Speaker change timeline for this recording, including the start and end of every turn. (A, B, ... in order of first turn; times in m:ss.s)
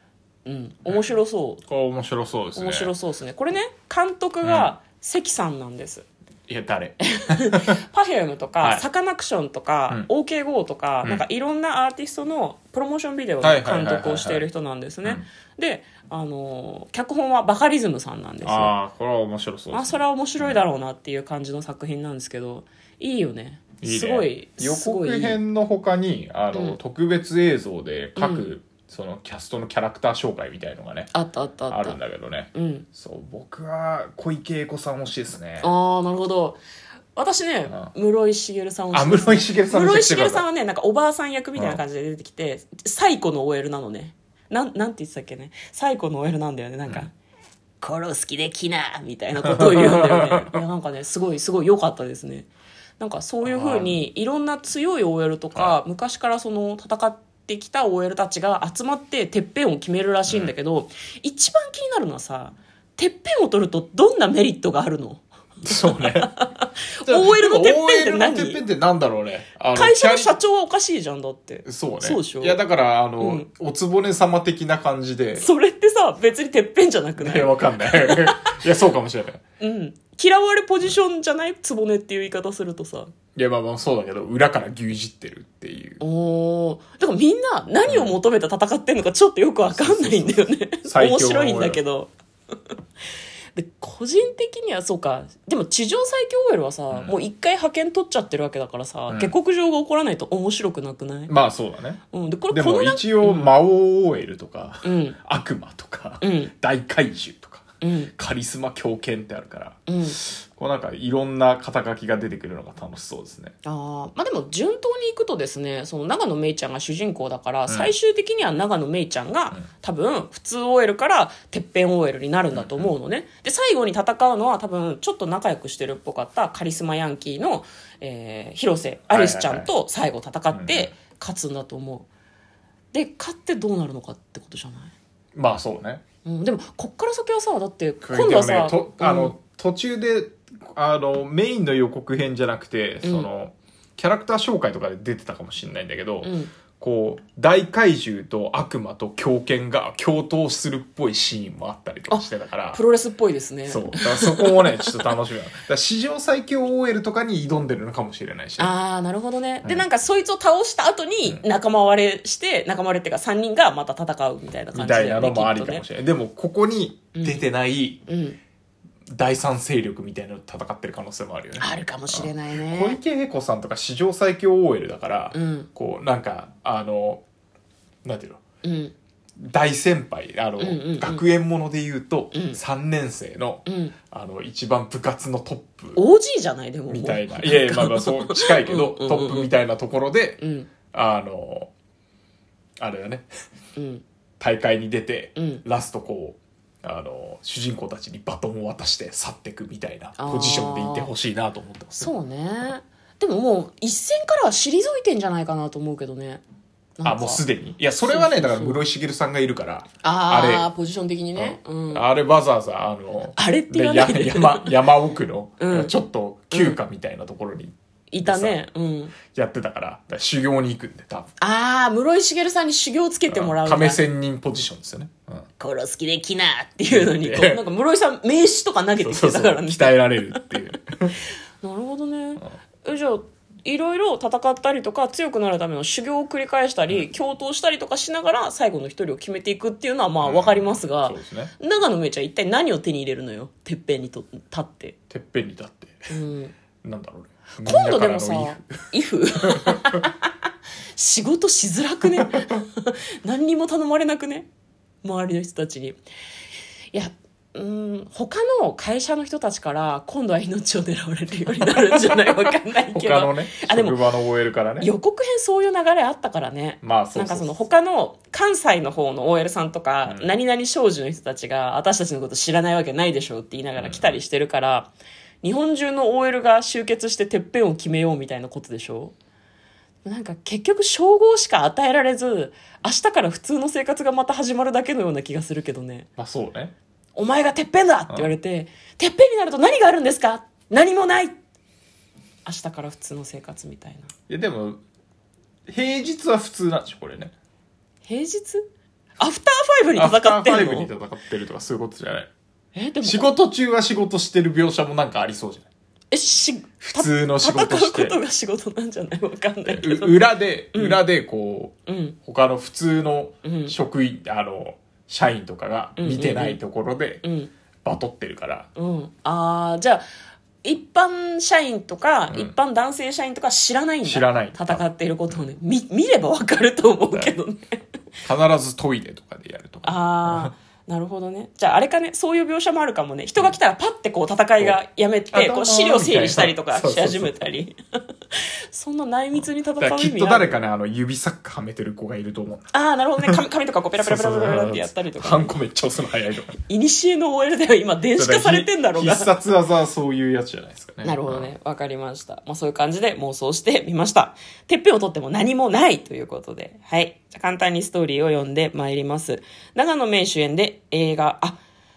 0:00.4-0:01.6 A
0:01.6-0:02.9 B
0:02.5-0:06.0 A
0:04.4-0:04.7 B
0:06.5-0:07.8 B
0:07.2-0:18.7 A
0:13.4-0:14.5 B
0:18.4-0:20.6 B
0:19.7-0:25.4 A
0:23.8-0:31.1 B
0:26.5-0:26.8 A
0:28.2-0:28.5 A
0:31.1-0:32.0 A
0:31.7-0:35.7 B
0:32.5-0:32.8 A
0:35.6-0:36.6 A
0:37.1-0:47.1 A
0:37.7-0:37.9 B
0:38.9-0:40.4 B
0:41.5-0:41.8 B
0:47.8-1:08.6 A
0:49.4-0:50.6 B
0:53.4-0:54.0 B
1:00.3-1:00.5 B
1:05.6-1:06.3 B
1:07.0-1:10.4 B
1:09.7-1:12.6 A
1:11.6-1:15.4 B
1:13.2-1:13.5 A
1:15.3-1:18.5 A
1:17.2-1:19.4 B
1:19.6-1:23.1 A
1:23.3-1:26.0 B
1:26.0-1:32.1 A
1:27.8-1:28.2 B
1:29.7-1:31.8 B
1:33.6-1:41.3 A
1:36.9-1:37.2 B
1:41.3-1:53.5 B
1:42.1-1:43.5 A
1:44.8-1:45.2 A
1:46.2-1:46.5 A
1:47.8-1:48.1 A
1:49.9-1:50.2 A
1:53.6-2:12.1 A
1:57.7-1:57.9 B
2:02.5-2:02.9 B
2:09.1-2:09.7 B
2:10.5-2:10.9 B
2:12.9-2:14.9 A
2:15.3-2:16.0 B
2:16.2-2:19.3 A
2:18.0-2:32.8 B
2:23.0-2:23.3 A
2:26.2-2:26.5 A
2:32.1-2:34.9 A
2:33.6-2:38.7 B
2:38.6-2:45.8 A
2:44.7-2:48.0 B
2:47.1-2:47.4 A
2:48.1-2:48.4 A
2:49.1-2:57.2 B
2:51.6-2:53.0 A
2:55.3-2:55.7 A
2:58.0-2:58.4 B
2:58.6-2:58.9 A
2:59.4-3:06.0 B
3:00.6-3:01.2 A
3:02.3-3:02.6 A
3:03.6-3:03.9 A
3:05.9-3:09.5 A
3:06.9-3:10.4 B
3:10.4-3:10.7 A
3:10.9-3:11.7 B
3:12.8-3:13.3 B
3:13.8-3:14.0 A
3:14.4-3:22.1 B
3:15.4-3:15.6 A
3:20.2-3:21.1 A
3:22.0-3:26.4 A
3:27.0-3:27.4 A
3:27.0-3:30.7 B
3:28.0-3:28.8 A
3:30.0-3:32.0 A
3:31.3-3:38.6 B
3:33.3-3:34.8 A
3:35.6-3:35.9 A
3:36.5-3:36.8 A
3:38.1-3:39.1 A
3:39.2-3:41.3 B
3:41.4-3:44.0 A
3:43.3-3:45.5 B
3:45.6-3:50.5 A
3:46.9-3:47.6 B
3:49.0-3:51.2 B
3:51.6-4:04.9 A
4:00.2-4:01.5 B
4:05.1-4:06.2 B
4:06.1-4:06.5 A
4:06.8-4:08.8 B
4:07.6-4:10.2 A
4:09.3-4:10.0 B
4:10.9-4:14.5 A
4:15.0-4:16.0 A
4:16.9-4:24.0 A
4:22.9-4:24.9 B
4:24.8-4:34.9 A
4:26.8-4:27.6 B
4:30.0-4:30.3 B
4:33.8-4:34.2 B
4:35.4-4:39.1 A
4:40.0-4:46.1 A
4:46.2-4:46.7 B
4:47.2-4:51.4 A
4:48.1-4:48.3 B
4:52.4-4:54.1 A
4:54.3-4:54.8 B
4:55.7-4:57.3 B
4:58.0-4:58.6 A
4:59.2-5:00.9 A
5:00.0-5:02.3 B
5:02.7-5:03.3 A
5:03.0-5:05.7 B
5:06.1-5:11.0 A
5:06.8-5:08.2 B
5:09.6-5:11.7 B
5:11.9-5:12.2 A
5:12.2-5:17.2 B
5:13.4-5:13.7 A
5:16.0-5:16.6 A
5:17.2-5:17.5 A
5:17.8-5:18.7 B
5:18.8-5:20.0 A
5:20.6-5:27.8 A
5:24.0-5:25.4 B
5:27.1-5:27.4 B
5:28.2-5:30.5 B
5:29.8-5:37.7 A
5:35.3-5:37.4 B
5:38.3-5:40.6 A
5:39.4-5:42.7 B
5:42.7-5:45.5 A
5:44.0-5:46.6 B
5:46.7-5:49.3 A
5:48.2-5:51.5 B
5:51.0-6:01.6 A